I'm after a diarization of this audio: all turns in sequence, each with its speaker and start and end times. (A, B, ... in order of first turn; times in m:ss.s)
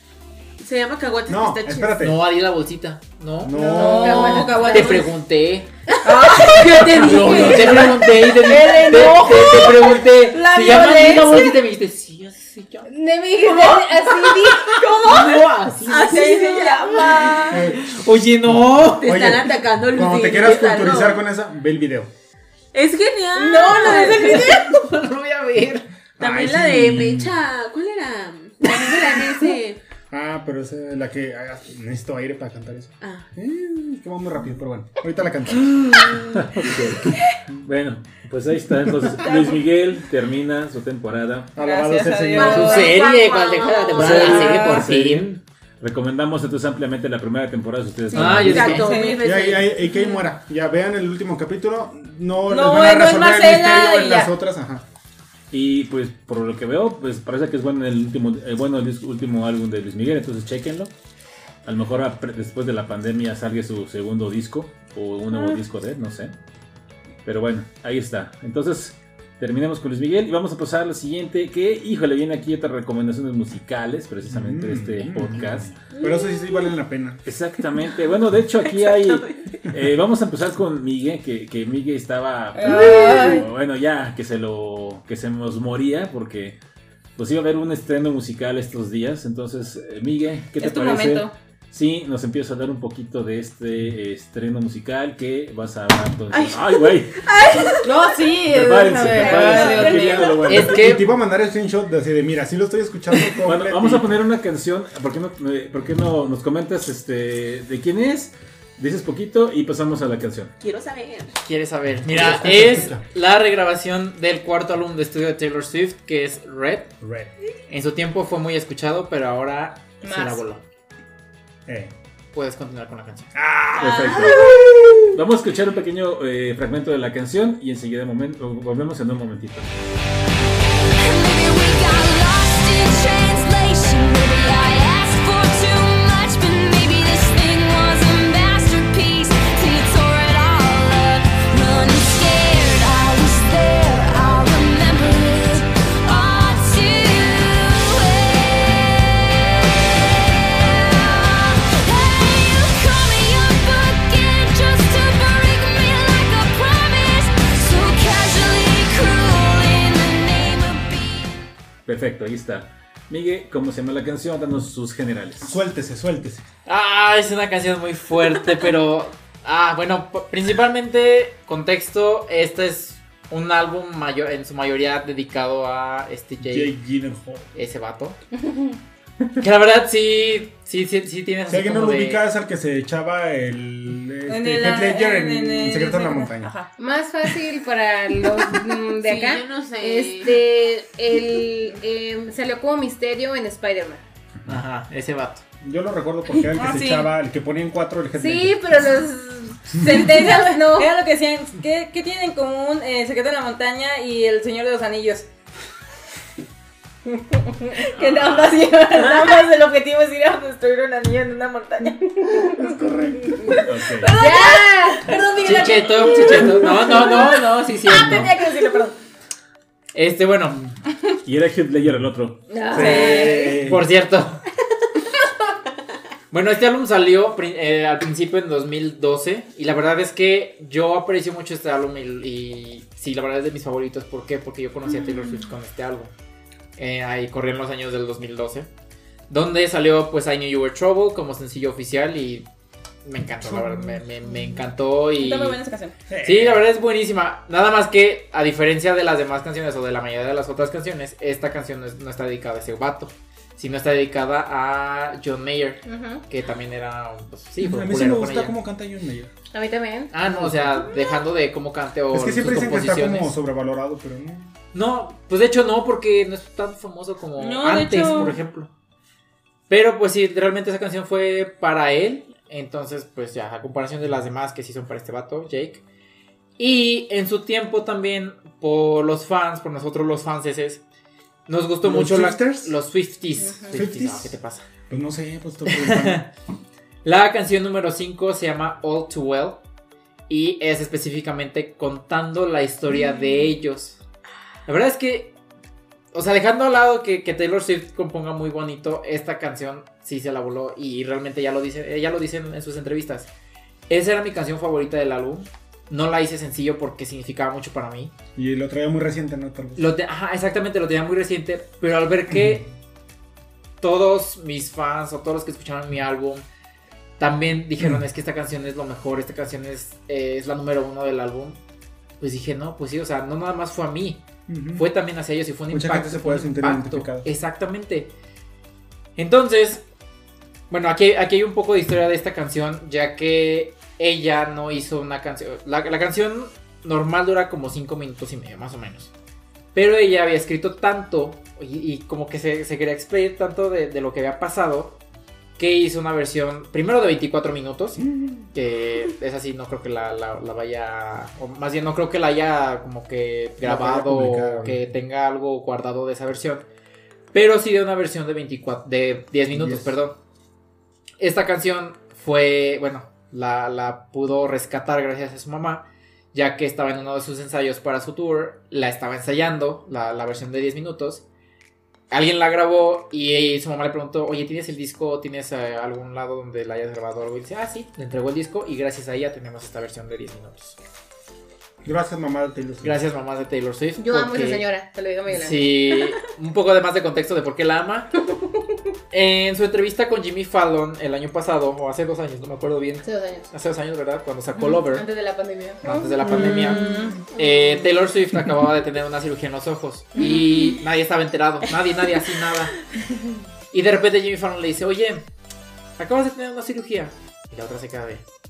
0:00.6-0:02.1 A
0:01.3-0:02.2 B
0:02.0-0:05.7 C
0:03.4-0:04.6 B
0:03.5-0:05.1 D
0:03.6-0:04.9 E
0:04.4-0:05.0 A
0:05.9-0:11.4 A
0:06.0-0:08.0 D
0:06.2-0:12.9 C
0:08.6-0:09.2 D
0:10.3-0:11.4 D
0:12.9-0:14.9 E
0:13.4-0:17.7 A
0:15.0-0:16.4 C
0:16.0-0:17.6 D
0:17.2-0:19.2 C
0:17.5-0:17.9 B
0:18.9-0:22.1 B
0:19.0-0:21.2 A
0:22.7-0:24.8 A
0:23.4-0:25.9 C
0:23.8-0:24.4 D
0:26.2-0:27.4 B
0:26.2-0:29.8 A
0:30.1-0:36.0 B
0:33.0-0:33.3 A
0:36.4-0:37.1 F
0:37.6-0:41.5 F
0:41.5-0:42.9 B
0:41.6-0:42.9 D
0:42.3-0:44.6 A
0:42.4-0:45.3 C
0:43.9-0:48.9 F
0:44.3-0:44.8 D
0:48.1-0:50.2 A
0:48.1-0:48.9 C
0:48.6-0:49.2 D
0:49.2-0:54.8 B
0:52.5-0:54.3 D
0:55.5-1:00.9 F
1:01.6-1:06.3 F
1:07.2-1:15.8 F
1:14.2-1:17.2 B
1:16.0-1:16.3 E
1:17.2-1:26.6 F
1:18.6-1:19.7 A
1:22.5-1:23.4 D
1:22.8-1:23.3 A
1:27.2-1:37.1 F
1:30.6-1:31.3 D
1:36.3-1:38.2 A
1:37.8-1:40.4 D
1:38.5-1:40.9 F
1:39.0-1:40.5 A
1:40.4-1:44.1 B
1:40.4-1:41.0 C
1:43.4-1:50.5 F
1:50.6-1:51.3 A
1:51.4-1:56.9 C
1:52.1-1:53.0 B
1:52.4-1:52.7 A
1:57.0-1:57.3 B
1:57.7-2:00.6 C
2:00.0-2:00.4 D
2:01.7-2:01.9 B
2:02.3-2:03.3 C
2:03.3-2:04.3 B
2:03.8-2:04.2 D
2:03.8-2:04.5 F
2:04.2-2:05.1 A
2:05.1-2:09.7 F
2:11.0-2:41.4 G
2:41.8-2:45.6 F
2:45.4-2:46.4 B
2:46.6-2:56.8 C
2:56.4-2:57.5 B
2:57.5-2:58.2 C
2:58.4-2:58.8 E
2:59.4-3:02.2 C
3:01.5-3:06.5 B
3:04.3-3:06.7 D
3:06.8-3:14.0 E
3:09.0-3:10.4 A
3:14.4-3:15.4 C
3:15.6-3:18.6 B
3:16.6-3:17.1 D
3:18.2-3:20.9 E
3:19.8-3:25.3 D
3:27.7-3:32.2 D
3:32.8-3:33.4 B
3:33.5-3:38.9 D
3:33.6-3:34.1 F
3:34.1-3:35.2 E
3:35.4-3:38.3 C
3:39.9-3:40.6 C
3:41.2-3:42.4 F
3:42.5-3:43.6 D
3:42.7-3:43.9 B
3:42.7-3:43.4 E
3:43.6-3:44.4 C
3:46.3-3:56.1 C
3:56.8-3:58.7 C
3:59.3-4:02.5 C
4:03.0-4:05.6 C
4:03.4-4:04.0 B
4:05.1-4:06.0 D
4:06.1-4:06.7 B
4:06.2-4:18.6 C
4:15.8-4:16.2 E
4:17.6-4:19.3 B
4:19.5-4:20.1 E
4:20.1-4:23.3 C
4:20.2-4:20.8 B
4:22.1-4:24.5 B
4:24.7-4:28.7 C
4:27.4-4:28.4 D
4:29.7-4:35.8 C
4:36.6-4:40.8 C
4:41.5-4:44.6 C
4:41.8-4:42.7 B
4:43.4-4:43.7 E
4:43.7-4:44.4 B
4:44.9-4:46.3 B
4:45.7-4:46.3 C
4:47.0-4:49.6 C
4:50.3-4:54.0 C
4:54.6-4:55.3 C
4:56.1-5:03.3 C
5:03.9-5:08.1 C
5:08.4-5:09.9 B
5:09.8-5:12.7 C
5:12.3-5:12.6 B
5:13.8-5:16.4 C
5:17.2-5:21.6 C
5:22.2-5:24.2 C
5:24.5-5:24.9 B
5:24.7-5:28.1 C
5:25.7-5:27.3 B
5:29.2-5:29.8 C
5:30.7-5:39.1 C
5:39.7-5:45.0 C
5:45.6-5:56.6 C
5:48.0-5:48.4 B
5:53.6-5:54.8 B
5:57.3-6:00.2 C
5:59.5-5:59.9 B
6:01.2-6:11.2 C
6:12.1-6:20.8 C
6:21.8-6:23.0 B
6:22.8-6:24.6 C
6:24.0-6:25.9 E
6:25.3-6:28.1 C
6:29.1-6:35.0 C
6:33.0-6:33.5 E
6:34.6-6:37.2 E
6:35.8-6:42.7 C
6:36.5-6:37.2 D
6:43.7-6:45.2 C
6:46.0-6:48.2 C